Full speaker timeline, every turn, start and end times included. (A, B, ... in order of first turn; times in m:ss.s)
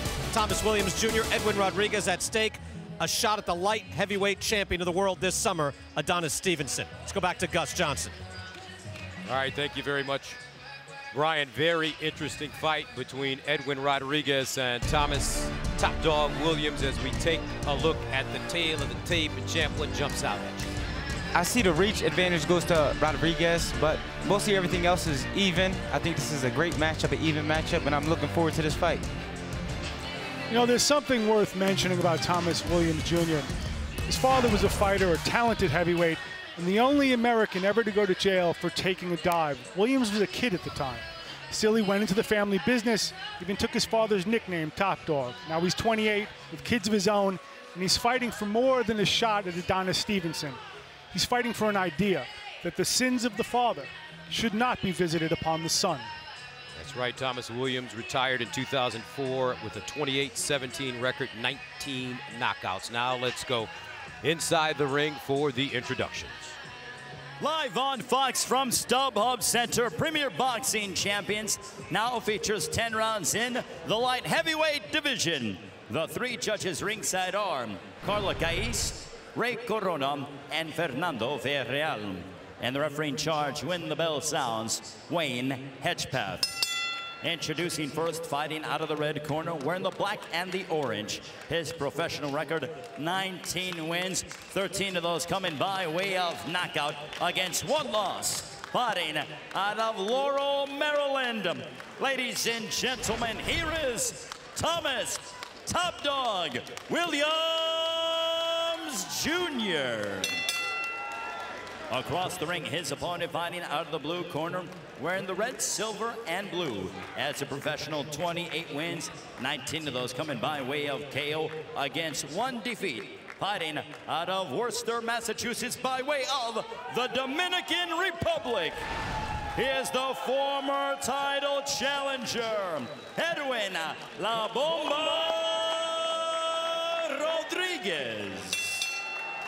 0:00.3-0:08.2 A
0:09.2-0:10.4 B
0:11.1-0:20.7 B
0:21.3-0:29.1 C
0:30.5-0:33.5 D
0:34.1-0:50.6 D
0:51.1-0:56.1 D
0:56.8-1:03.7 B
1:04.2-1:06.6 B
1:07.4-1:26.5 E
1:27.2-1:50.4 E
1:51.9-2:08.8 E
2:09.6-2:18.8 E